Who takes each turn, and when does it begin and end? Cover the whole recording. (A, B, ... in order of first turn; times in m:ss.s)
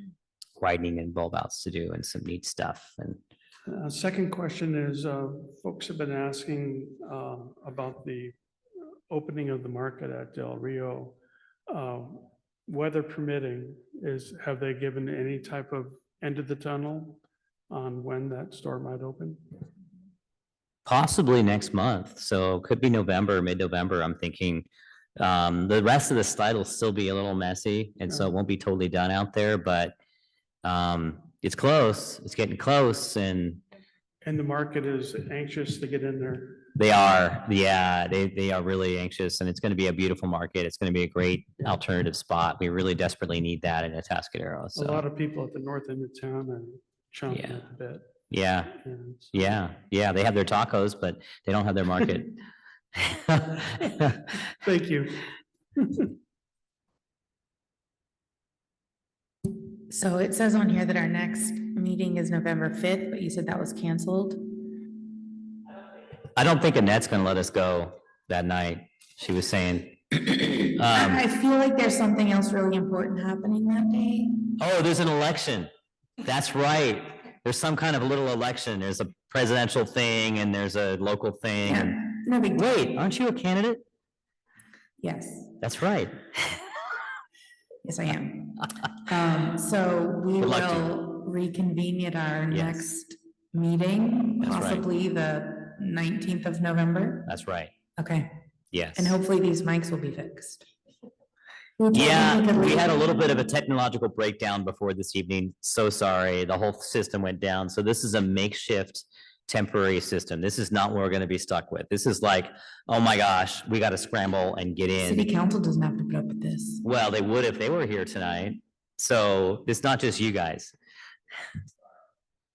0:00.6-0:03.2 A
0:03.7-0:08.3 B
0:09.1-0:11.2 B
0:11.7-0:19.4 B
0:20.8-0:29.9 A
0:30.6-0:33.6 A
0:34.2-0:36.6 B
0:36.8-0:45.0 A
0:44.8-0:48.1 B
0:47.3-0:47.6 A
0:48.3-0:48.8 A
0:48.8-0:49.6 B
0:49.3-0:52.4 A
0:53.0-0:54.2 A
0:54.5-0:55.2 B
0:55.8-0:56.1 B
0:59.9-1:04.5 C
1:06.3-1:11.2 A
1:10.9-1:14.5 C
1:14.6-1:15.7 A
1:16.2-1:22.0 A
1:21.6-1:22.9 C
1:22.6-1:23.8 A
1:25.0-1:25.5 C
1:25.6-1:26.2 A
1:27.8-1:37.3 C
1:30.4-1:30.9 A
1:32.5-1:32.8 A
1:34.4-1:34.8 A
1:37.2-1:37.7 A
1:38.0-1:38.3 C
1:38.7-1:39.1 A
1:39.0-1:40.6 C
1:41.8-1:43.1 C
1:41.9-1:55.3 A
1:55.0-1:56.8 C
1:56.8-2:00.7 A